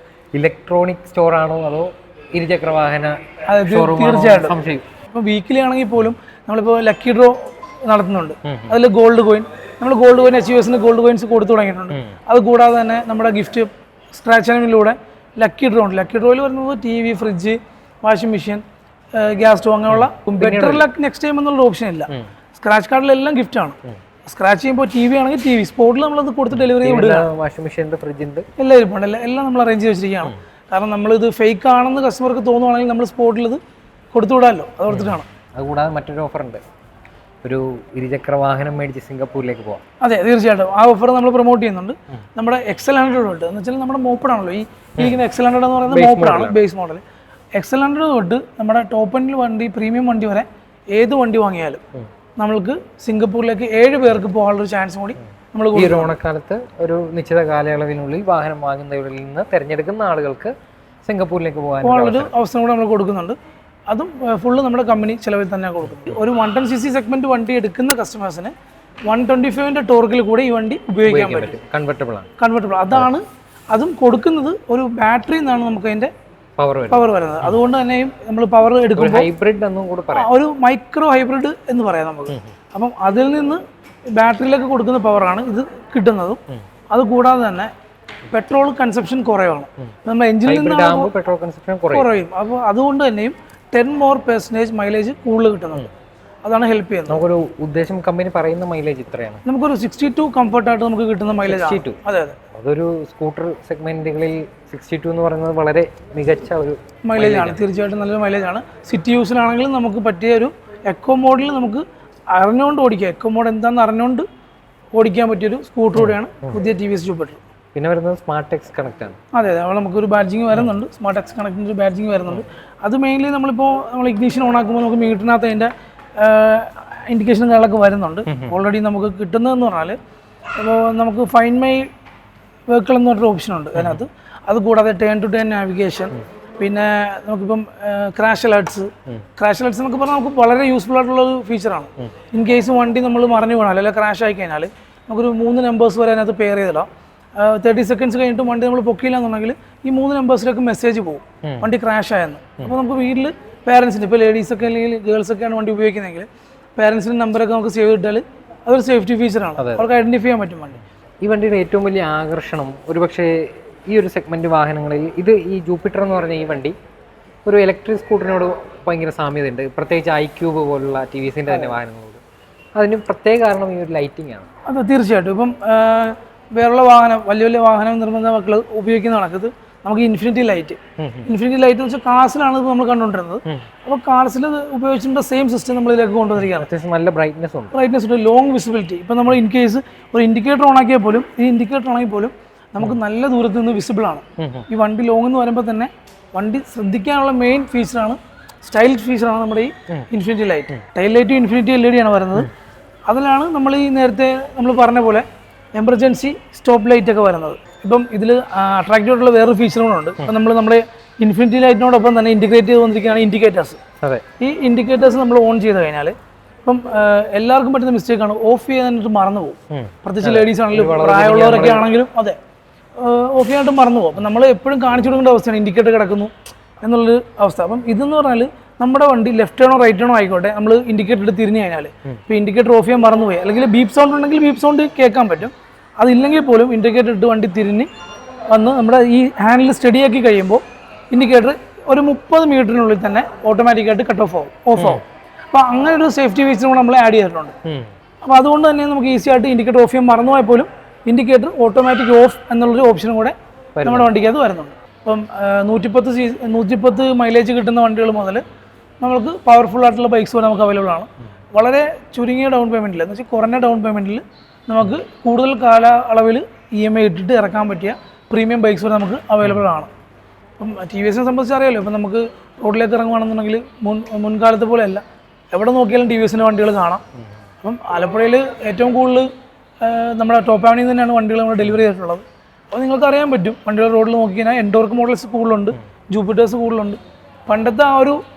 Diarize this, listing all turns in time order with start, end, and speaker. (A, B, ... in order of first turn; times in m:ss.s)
0:00.3-0:04.8 A
0:03.5-0:04.5 B
0:05.1-0:18.6 B
0:08.4-0:08.7 A
0:19.1-0:27.3 B
0:19.9-0:20.8 A
0:26.5-0:28.4 A
0:28.6-0:33.6 B
0:34.1-0:35.3 B
0:34.9-0:36.6 A
0:37.4-0:39.8 A
0:40.0-0:47.0 B
0:45.9-0:46.6 A
0:47.5-0:51.8 B
0:52.4-0:56.1 B
0:55.7-1:00.5 A
1:01.0-1:02.3 A
1:01.8-1:03.4 B
1:03.9-1:08.5 B
1:09.0-1:11.6 B
1:11.0-1:12.3 A
1:12.4-1:16.1 B
1:16.6-1:17.6 A
1:16.9-1:19.3 B
1:19.0-1:20.3 A
1:20.1-1:23.6 B
1:24.2-1:27.7 B
1:28.3-1:31.1 B
1:30.4-1:32.1 A
1:31.9-1:35.9 B
1:36.4-1:37.2 B
1:37.1-1:39.4 A
1:39.4-1:42.4 B
1:41.4-1:42.0 A
1:42.5-1:47.6 A
1:47.0-1:54.2 B
1:54.9-1:57.4 B
1:57.7-1:59.2 A
1:59.3-2:10.0 B
2:08.3-2:08.5 A
2:10.6-2:11.9 B
2:12.7-2:40.8 B
2:13.7-2:14.0 A
2:39.6-2:39.8 A
2:41.2-2:46.7 A
2:47.4-2:52.2 A
2:51.5-2:51.8 B
2:52.8-2:54.5 A
2:54.6-3:06.7 B
3:01.0-3:01.3 A
3:06.4-3:07.7 A
3:07.7-3:22.5 B
3:14.4-3:14.6 A
3:23.1-3:25.2 B
3:25.8-3:33.8 B
3:34.4-3:36.1 B
3:36.6-3:42.4 B
3:39.7-3:41.9 A
3:43.0-3:57.9 B
3:58.5-4:07.5 B
4:04.8-4:05.0 A
4:07.6-4:07.9 A
4:08.2-4:18.4 B
4:13.7-4:14.1 A
4:19.0-4:29.9 B
4:30.6-4:37.0 B
4:37.6-4:39.3 B
4:39.8-4:48.2 B